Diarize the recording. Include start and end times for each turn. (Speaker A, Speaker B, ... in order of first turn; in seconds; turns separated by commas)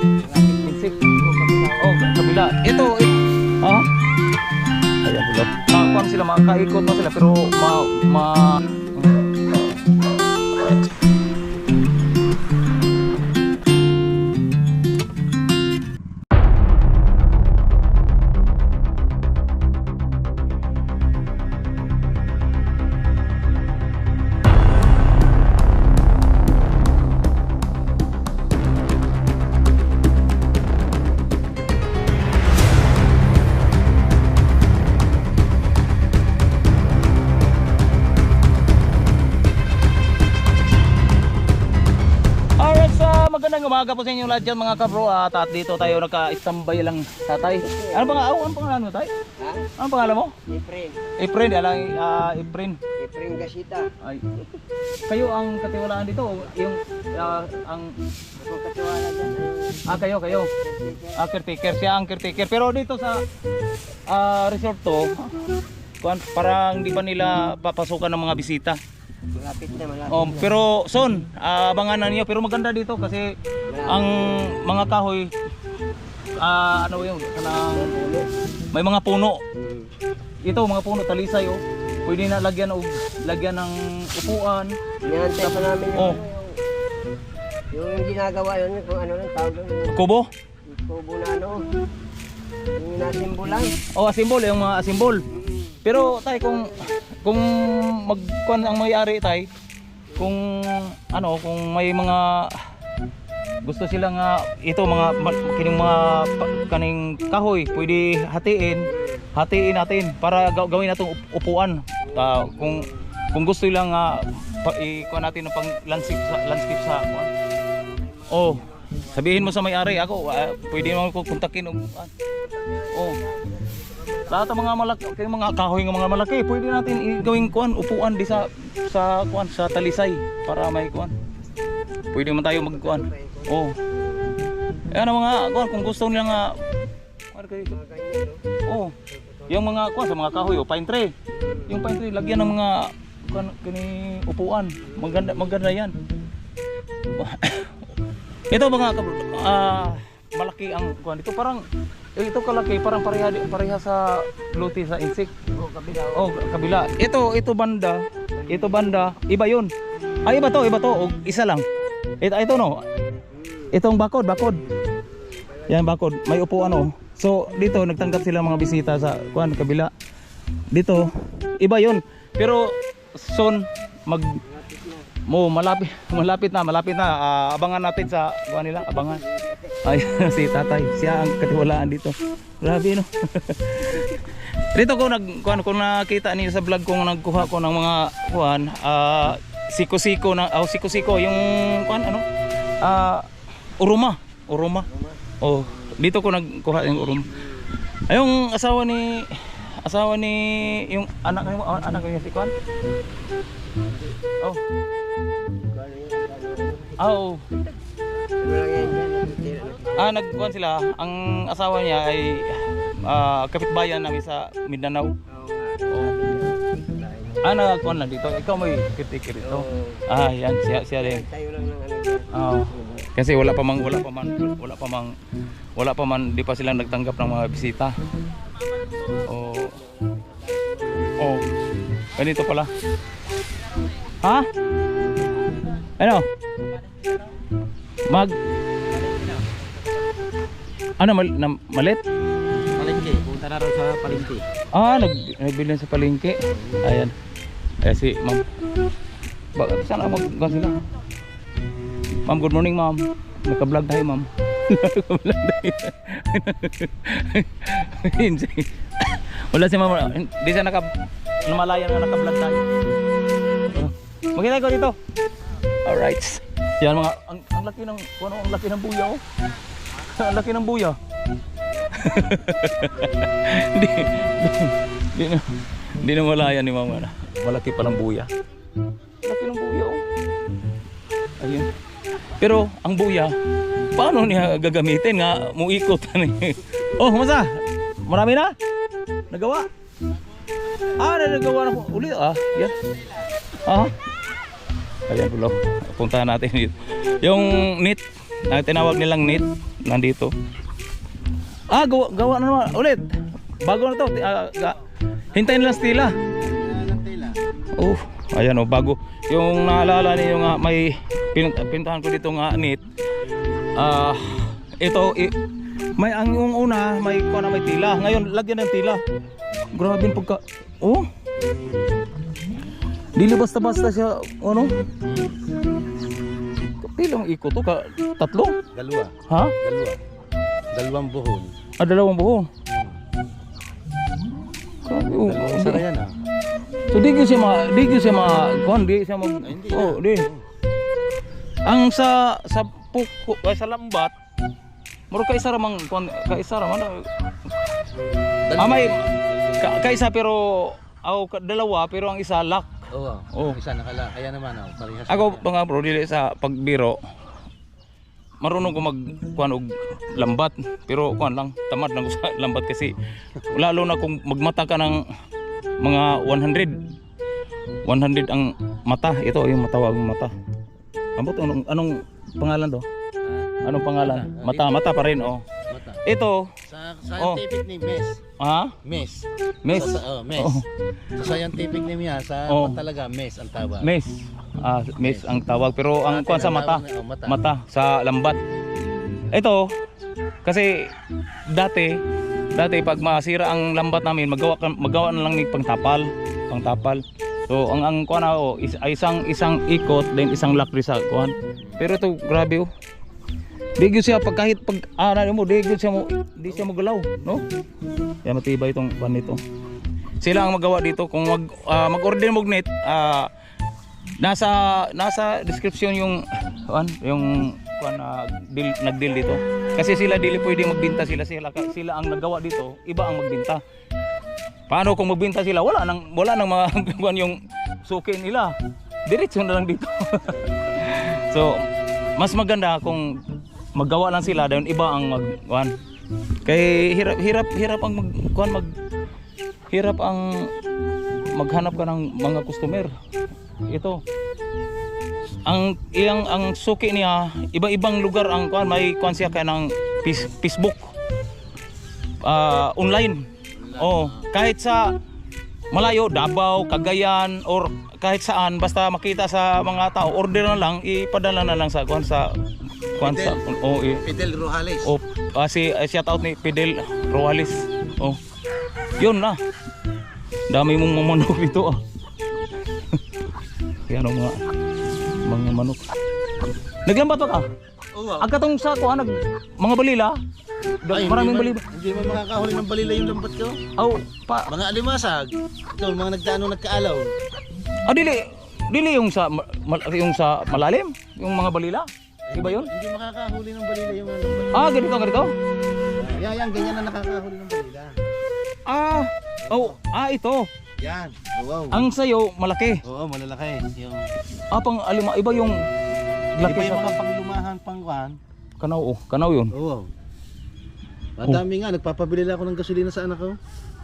Speaker A: 0.2-1.8, Speaker B: 0.4-0.9, Speaker B: 1.8-3.9, Speaker B: 5.0-9.1, Speaker B: 42.6-49.1, Speaker A: 47.6-48.3, Speaker A: 49.4-49.7, Speaker B: 49.8-50.3, Speaker A: 50.5-51.0, Speaker B: 51.2-52.8, Speaker A: 53.0-54.5, Speaker B: 54.0-54.3, Speaker B: 55.1-57.9, Speaker A: 58.4-61.2, Speaker B: 59.9-60.5, Speaker B: 61.1-63.2, Speaker B: 64.1-65.3, Speaker B: 66.0-68.8, Speaker A: 69.3-70.5, Speaker B: 70.1-73.3, Speaker A: 73.7-74.4, Speaker B: 73.8-75.3, Speaker B: 76.4-78.0, Speaker A: 77.7-78.2, Speaker B: 78.7-79.4, Speaker A: 79.6-79.9, Speaker B: 80.4-84.8, Speaker A: 85.0-86.5, Speaker B: 85.4-86.2, Speaker A: 87.7-90.0, Speaker B: 89.9-90.3, Speaker A: 90.7-91.6, Speaker A: 92.8-93.7, Speaker B: 93.9-95.2, Speaker A: 95.3-96.9, Speaker B: 95.8-99.5, Speaker B: 100.2-102.6, Speaker B: 103.6-117.3, Speaker A: 108.9-109.3, Speaker A: 112.1-112.8, Speaker A: 117.8-119.1, Speaker B: 118.3-122.1, Speaker A: 122.4-124.6, Speaker B: 122.9-123.2, Speaker B: 124.3-131.1, Speaker B: 132.1-133.7, Speaker A: 132.5-134.3, Speaker B: 134.9-136.6, Speaker B: 137.3-137.7, Speaker A: 137.7-138.4, Speaker B: 138.7-138.9, Speaker B: 139.5-141.1, Speaker A: 141.3-141.7, Speaker B: 141.7-145.9, Speaker B: 147.1-147.9, Speaker B: 148.5-151.6, Speaker B: 152.2-155.3, Speaker A: 155.5-156.5, Speaker B: 156.1-159.7, Speaker A: 158.4-159.1, Speaker B: 160.2-161.7, Speaker B: 162.2-162.8, Speaker A: 163.3-163.7, Speaker B: 163.7-164.6, Speaker A: 165.1-165.8, Speaker B: 165.7-169.9, Speaker B: 170.7-171.1, Speaker B: 171.6-174.4, Speaker A: 174.5-175.1, Speaker B: 175.3-179.2, Speaker A: 178.9-179.7, Speaker B: 179.8-192.2, Speaker B: 192.8-193.3, Speaker B: 193.8-194.9, Speaker A: 194.9-195.2, Speaker B: 195.4-197.3, Speaker A: 197.3-197.7, Speaker B: 198.1-202.5, Speaker A: 205.7-207.0, Speaker B: 207.0-207.5, Speaker A: 208.4-210.1, Speaker B: 209.9-215.1, Speaker A: 215.3-217.5, Speaker B: 217.4-221.2, Speaker A: 219.4-220.0, Speaker A: 221.0-223.1, Speaker B: 222.3-225.1, Speaker B: 225.8-227.9, Speaker B: 229.2-229.8, Speaker A: 229.6-231.1, Speaker B: 231.2-231.4, Speaker B: 232.2-232.7, Speaker B: 234.2-234.5, Speaker B: 236.0-236.2, Speaker B: 238.1-238.4, Speaker B: 241.0-242.0, Speaker C: 242.7-244.4, Speaker B: 244.7-247.1, Speaker B: 247.8-248.4, Speaker B: 249.6-250.8, Speaker B: 252.2-260.9, Speaker B: 261.4-262.6, Speaker B: 263.7-265.0, Speaker B: 265.8-269.2, Speaker B: 270.0-271.0, Speaker B: 271.9-278.3, Speaker B: 279.2-280.0, Speaker B: 281.4-281.7, Speaker B: 282.4-283.4, Speaker B: 283.9-288.5, Speaker B: 289.3-289.7, Speaker B: 290.9-292.8, Speaker B: 293.6-293.9, Speaker B: 295.1-300.3, Speaker B: 301.7-304.8, Speaker B: 305.3-306.1, Speaker C: 306.4-307.4, Speaker B: 307.8-312.8, Speaker B: 313.8-315.3, Speaker B: 316.0-319.0, Speaker B: 319.7-321.1, Speaker B: 323.1-324.7, Speaker C: 325.0-325.4, Speaker B: 326.8-328.6, Speaker C: 328.7-330.0, Speaker B: 329.3-329.5, Speaker C: 330.7-331.5, Speaker B: 331.8-332.5, Speaker C: 332.7-333.0, Speaker B: 334.8-335.8, Speaker C: 335.2-336.1, Speaker B: 336.9-340.3, Speaker C: 339.4-340.4, Speaker B: 341.6-344.1, Speaker B: 345.1-347.1, Speaker C: 348.4-350.0, Speaker B: 348.6-349.0, Speaker B: 349.6-353.6, Speaker C: 352.9-355.4, Speaker B: 355.1-357.0, Speaker B: 358.4-362.9, Speaker B: 363.5-365.0, Speaker B: 365.8-366.7, Speaker B: 367.9-370.3, Speaker B: 371.2-372.9, Speaker C: 373.2-374.9, Speaker B: 373.6-375.4, Speaker C: 375.7-376.0, Speaker B: 376.0-376.5, Speaker C: 376.7-378.2, Speaker B: 378.4-378.8, Speaker C: 378.8-380.6, Speaker B: 379.6-380.6, Speaker C: 381.1-383.9, Speaker B: 382.5-382.7, Speaker B: 383.8-388.4, Speaker C: 385.0-385.3, Speaker C: 386.1-387.4, Speaker B: 389.3-389.7, Speaker B: 390.4-390.9, Speaker B: 391.5-391.9, Speaker B: 392.5-402.7, Speaker B: 403.8-407.4, Speaker B: 408.2-409.4, Speaker B: 410.2-413.3, Speaker B: 414.2-423.6, Speaker B: 424.7-428.5, Speaker B: 429.1-431.6, Speaker B: 432.2-433.1, Speaker B: 433.7-435.7, Speaker B: 436.4-438.7, Speaker B: 439.7-440.5, Speaker B: 441.3-442.9, Speaker B: 443.7-444.0, Speaker B: 445.4-450.9, Speaker B: 452.2-453.2, Speaker C: 453.6-454.2, Speaker B: 453.8-454.9, Speaker B: 455.7-462.3, Speaker B: 462.9-464.0, Speaker C: 463.0-464.9, Speaker B: 464.8-468.2, Speaker B: 469.0-469.4, Speaker B: 470.5-471.8, Speaker B: 473.9-474.4, Speaker B: 475.2-475.8, Speaker B: 476.9-477.5, Speaker C: 477.9-478.3, Speaker B: 478.2-480.1, Speaker B: 480.8-481.6, Speaker C: 480.9-483.6, Speaker B: 483.8-484.5, Speaker C: 484.5-487.1, Speaker B: 487.9-492.7, Speaker C: 492.3-494.6, Speaker B: 494.5-495.3, Speaker C: 496.0-497.9, Speaker B: 498.7-500.5, Speaker C: 499.4-499.8, Speaker C: 500.8-501.8, Speaker B: 501.7-502.8, Speaker C: 502.9-504.1, Speaker B: 504.5-505.6, Speaker B: 506.4-507.0, Speaker C: 506.4-508.2, Speaker B: 508.6-509.5, Speaker C: 509.5-509.9, Speaker C: 511.2-513.4